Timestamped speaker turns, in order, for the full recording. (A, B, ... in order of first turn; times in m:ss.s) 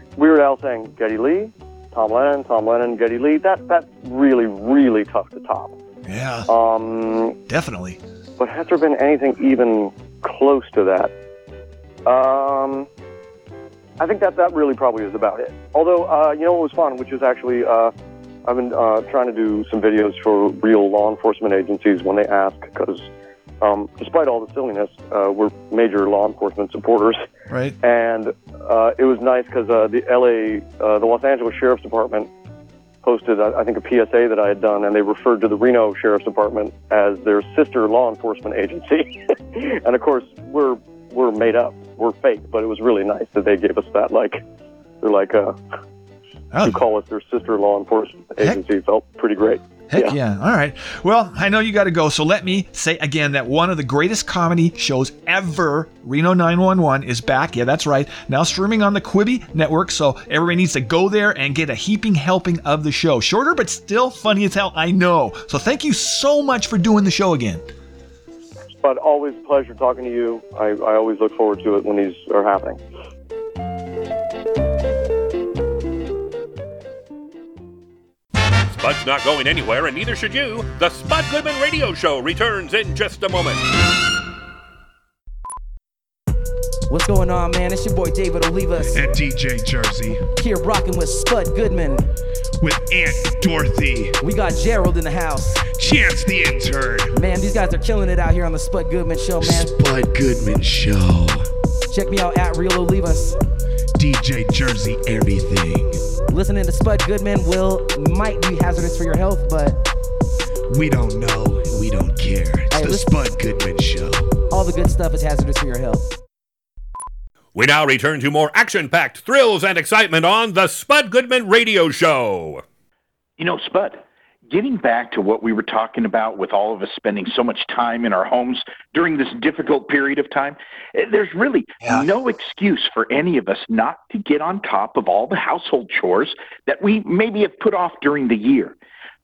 0:00.2-0:05.8 A
0:06.0-0:06.5 B
0:06.5-0:07.4 A
0:07.5-0:08.0 B
0:08.4-0:11.1 A
0:12.1-0:12.9 A
0:14.0-0:17.9 A
0:18.5-0:23.1 A
0:23.6-0:27.2 A
0:27.5-0:27.8 B
0:27.8-0:32.3 A
0:33.0-0:44.4 A
0:45.0-0:45.6 A
0:46.5-0:46.8 B
0:46.6-0:50.2 A
0:49.9-1:07.7 B
1:08.8-1:12.8 A
1:18.7-1:23.6 C
1:26.9-1:29.0 D
1:28.8-1:30.2 E
1:30.4-1:32.0 D
1:32.6-1:34.2 E
1:34.2-1:35.5 D
1:35.6-1:37.2 E
1:37.2-1:39.7 D
1:39.4-1:41.5 E
1:41.9-1:43.4 D
1:44.0-1:46.0 E
1:46.3-1:49.8 D
1:50.7-1:54.3 E
1:52.7-1:53.1 D
1:54.5-1:56.1 D
1:57.6-2:02.6 C
2:03.4-2:18.8 F
2:11.8-2:12.1 B